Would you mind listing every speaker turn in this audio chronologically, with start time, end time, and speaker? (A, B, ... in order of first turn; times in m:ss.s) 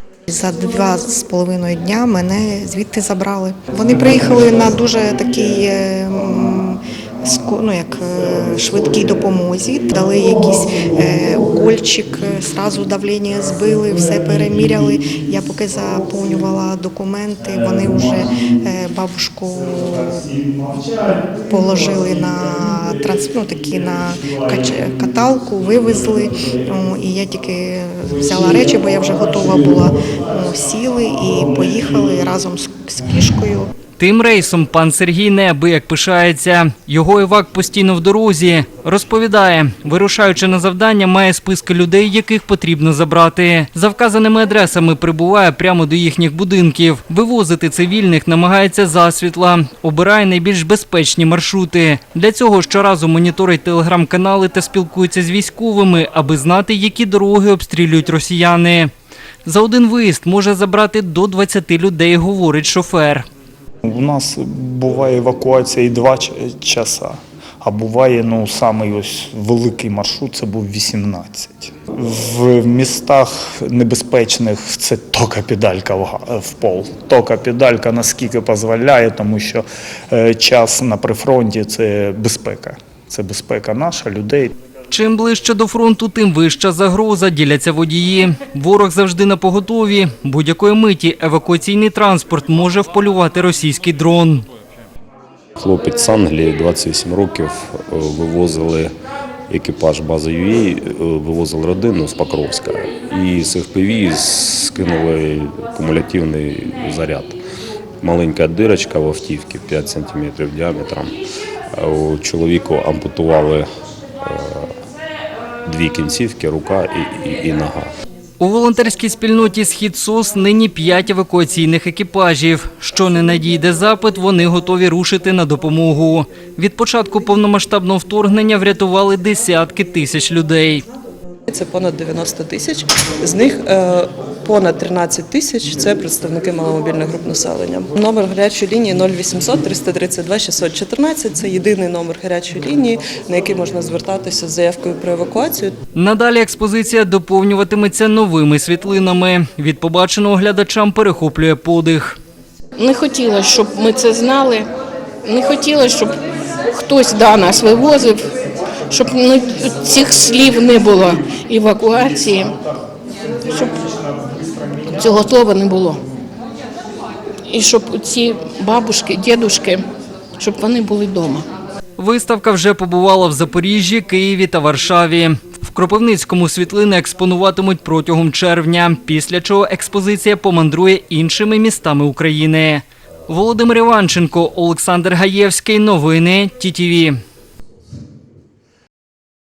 0:00.3-0:20.4 A
0:21.2-0:33.7 A
0:34.0-0:58.9 B
0:59.4-1:03.2 B
1:03.8-1:24.5 C
1:24.9-1:34.4 B
1:35.6-1:38.9 D
1:39.5-1:47.4 D
1:48.0-1:51.2 D
1:51.8-1:53.7 D
1:54.2-1:54.7 D
1:55.6-1:57.9 D
1:58.4-2:10.8 B
2:11.5-2:25.7 E
2:26.0-2:32.2 B
2:32.8-2:34.7 F
2:35.2-2:36.2 F
2:36.7-2:38.3 F
2:38.9-2:42.6 F
2:43.5-2:43.8 F
2:44.9-2:46.0 F
2:47.5-2:49.8 F
2:50.4-2:51.5 F
2:52.0-3:07.2 B